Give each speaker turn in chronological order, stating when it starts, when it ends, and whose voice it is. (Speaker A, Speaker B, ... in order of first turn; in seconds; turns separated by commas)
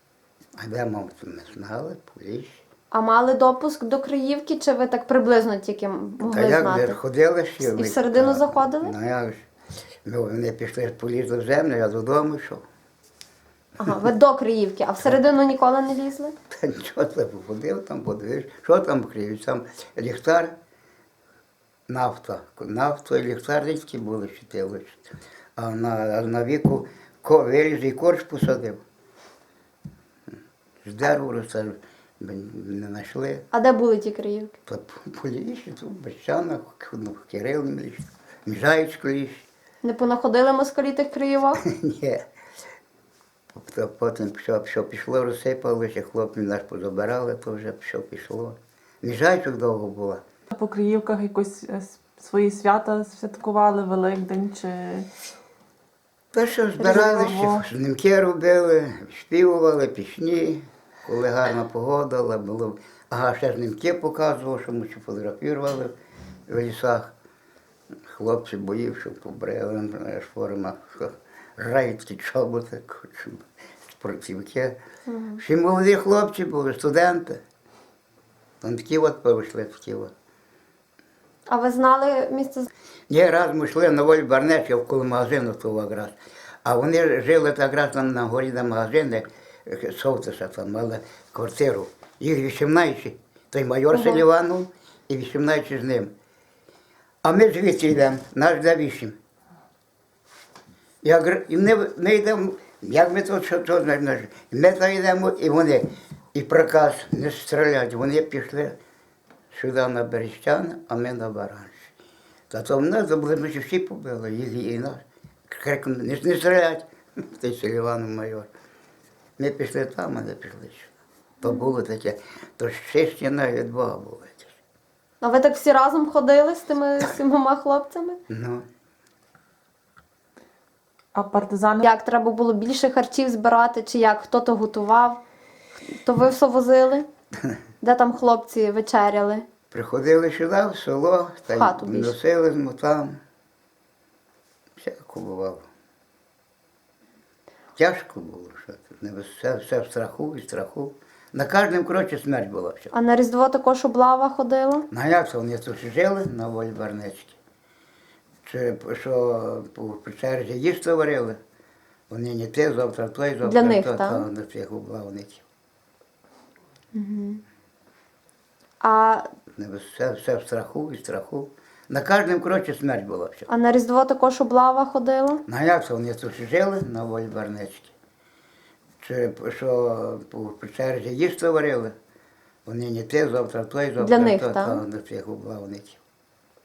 Speaker A: 0.6-2.6, Speaker B: 2.9-7.0, Speaker A: 6.2-9.4, Speaker B: 7.6-8.9, Speaker A: 10.1-12.6, Speaker B: 13.8-16.3, Speaker A: 16.5-20.5, Speaker A: 21.9-28.8, Speaker A: 30.8-33.4, Speaker B: 33.5-34.5, Speaker A: 34.7-39.5, Speaker B: 39.8-41.6, Speaker A: 41.6-42.2, Speaker A: 43.5-50.2, Speaker C: 50.5-55.1, Speaker A: 56.3-65.9, Speaker C: 56.8-57.6, Speaker A: 66.5-67.1, Speaker A: 68.1-74.7, Speaker B: 75.1-75.4, Speaker A: 75.4-77.4, Speaker A: 78.6-80.1, Speaker B: 81.5-82.7, Speaker A: 83.1-96.1, Speaker B: 93.9-94.2, Speaker A: 97.2-99.2, Speaker A: 101.0-108.8, Speaker A: 109.5-111.9, Speaker A: 112.5-118.5, Speaker A: 119.4-120.9, Speaker A: 121.4-124.5, Speaker B: 125.2-128.2, Speaker A: 128.3-128.6, Speaker C: 131.1-131.9, Speaker B: 131.8-135.2, Speaker B: 135.9-137.1, Speaker B: 137.8-139.4, Speaker A: 139.7-143.2, Speaker B: 141.5-142.1, Speaker A: 144.8-145.7, Speaker A: 147.7-152.9, Speaker B: 152.9-154.8, Speaker A: 154.9-157.4, Speaker A: 158.4-161.4, Speaker A: 162.1-165.4, Speaker B: 163.4-164.2, Speaker B: 166.9-167.4, Speaker B: 168.8-169.3, Speaker A: 169.5-173.5, Speaker B: 173.5-175.4, Speaker A: 175.5-177.9, Speaker A: 179.0-181.9, Speaker A: 182.7-186.0, Speaker B: 184.0-184.8